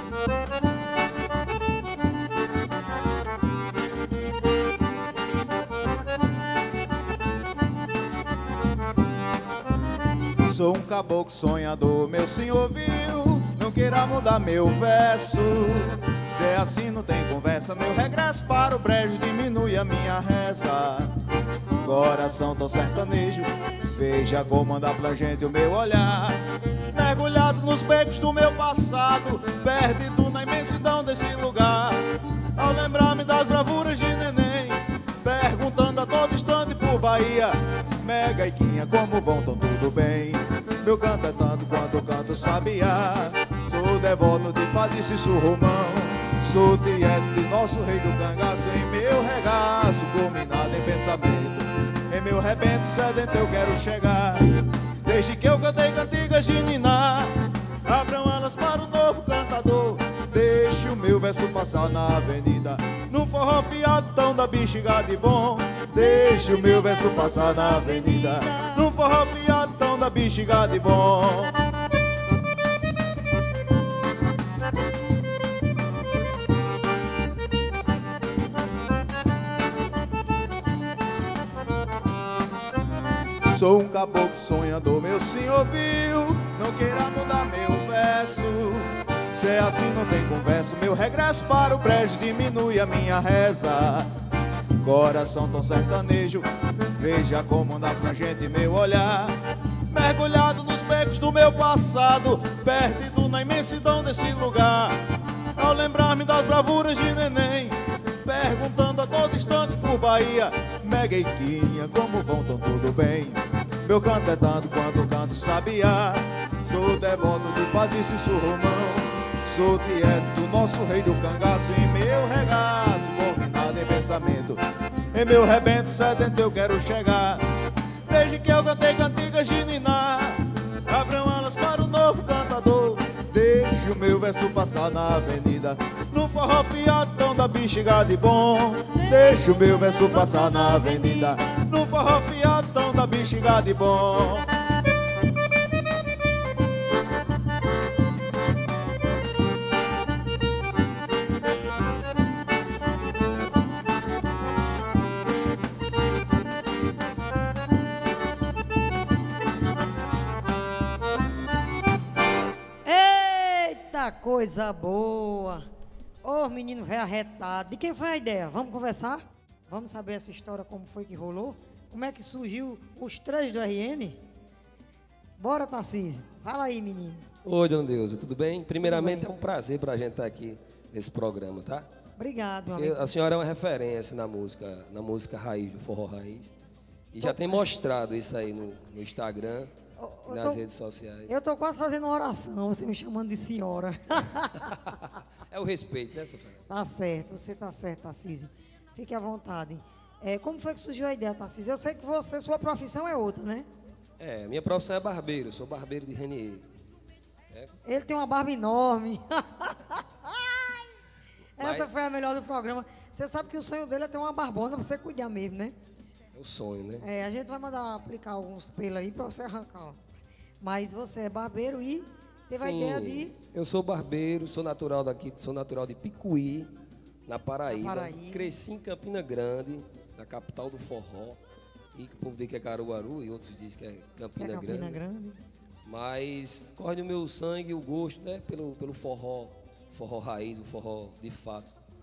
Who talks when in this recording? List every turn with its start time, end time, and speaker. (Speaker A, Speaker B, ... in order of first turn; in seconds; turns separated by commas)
Speaker A: 10.4-21.1, Speaker A: 21.8-26.4, Speaker A: 26.9-32.0, Speaker A: 32.5-54.5, Speaker A: 55.0-71.6, Speaker B: 65.9-68.9, Speaker A: 83.5-94.1, Speaker A: 94.8-99.4, Speaker A: 99.9-105.0, Speaker A: 105.6-124.6, Speaker A: 125.1-127.4, Speaker A: 128.1-144.5, Speaker B: 138.9-141.6, Speaker B: 162.8-165.6, Speaker B: 166.2-174.2, Speaker B: 175.4-177.2, Speaker C: 177.4-181.8, Speaker B: 178.8-179.3, Speaker B: 182.2-183.0, Speaker C: 182.8-186.5, Speaker C: 187.1-189.7, Speaker B: 187.2-187.7, Speaker B: 190.0-190.6, Speaker C: 190.3-191.3, Speaker B: 191.3-194.9, Speaker C: 195.5-196.6, Speaker B: 196.7-203.7, Speaker C: 204.2-206.7, Speaker B: 207.8-210.5, Speaker B: 211.6-215.7, Speaker C: 211.6-211.9, Speaker C: 216.3-217.0, Speaker B: 217.0-220.0, Speaker B: 220.6-223.3, Speaker C: 222.5-226.7, Speaker C: 227.3-231.4, Speaker B: 227.7-228.5, Speaker C: 231.9-235.0, Speaker B: 234.4-235.4, Speaker C: 235.8-241.7